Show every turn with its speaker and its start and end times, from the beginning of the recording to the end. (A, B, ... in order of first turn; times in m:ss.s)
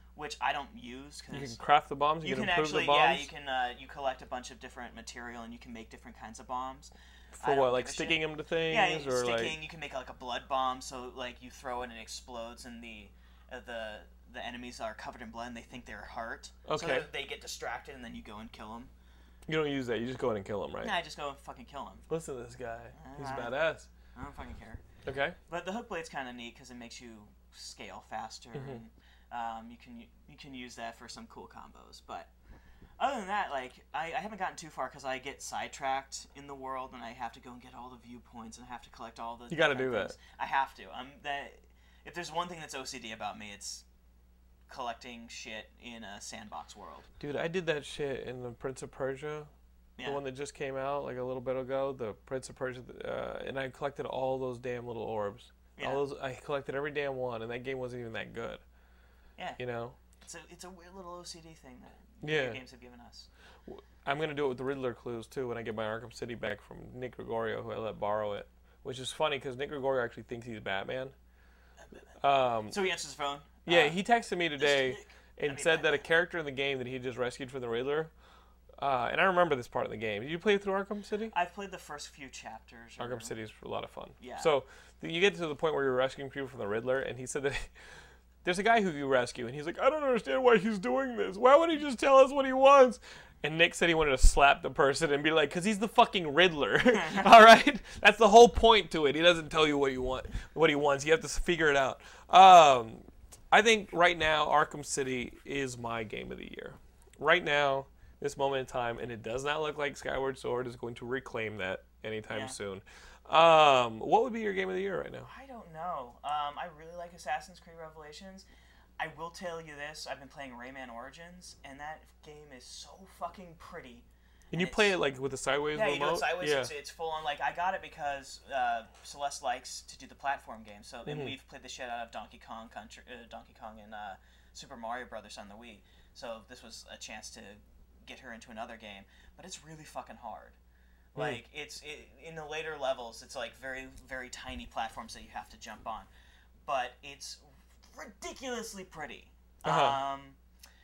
0:00.2-0:01.6 A
0:01.3-0:03.3 B
0:02.2-0:18.9 A
0:07.4-0:09.6 B
0:16.6-0:17.1 B
0:19.5-0:21.0 B
0:20.8-0:22.1 A
0:22.1-0:23.9 B
0:22.9-0:23.6 A
0:24.1-0:24.8 A
0:25.0-0:25.4 B
0:25.5-0:32.3 A
0:28.5-0:28.8 B
0:33.0-0:43.8 A
0:39.5-0:40.1 B
0:44.7-0:47.1 A
0:47.2-0:49.5 B
0:50.0-0:50.2 A
0:50.0-0:58.6 B
0:55.8-0:56.0 A
0:59.6-1:00.0 B
1:00.2-1:03.3 A
1:02.2-1:02.6 B
1:03.6-1:11.1 B
1:12.2-1:12.8 B
1:12.7-1:14.0 A
1:13.6-1:18.1 B
1:14.6-1:16.0 A
1:18.8-1:21.3 B
1:21.3-1:23.3 A
1:23.0-1:27.7 B
1:24.2-1:24.5 A
1:28.4-1:55.3 B
1:36.9-1:37.3 A
1:52.3-1:52.6 A
1:55.3-1:58.4 A
1:59.0-2:05.0 A
2:04.5-2:06.7 B
2:05.7-2:20.6 A
2:11.0-2:11.3 B
2:21.1-2:26.1 A
2:26.7-2:30.4 A
2:29.6-2:30.0 B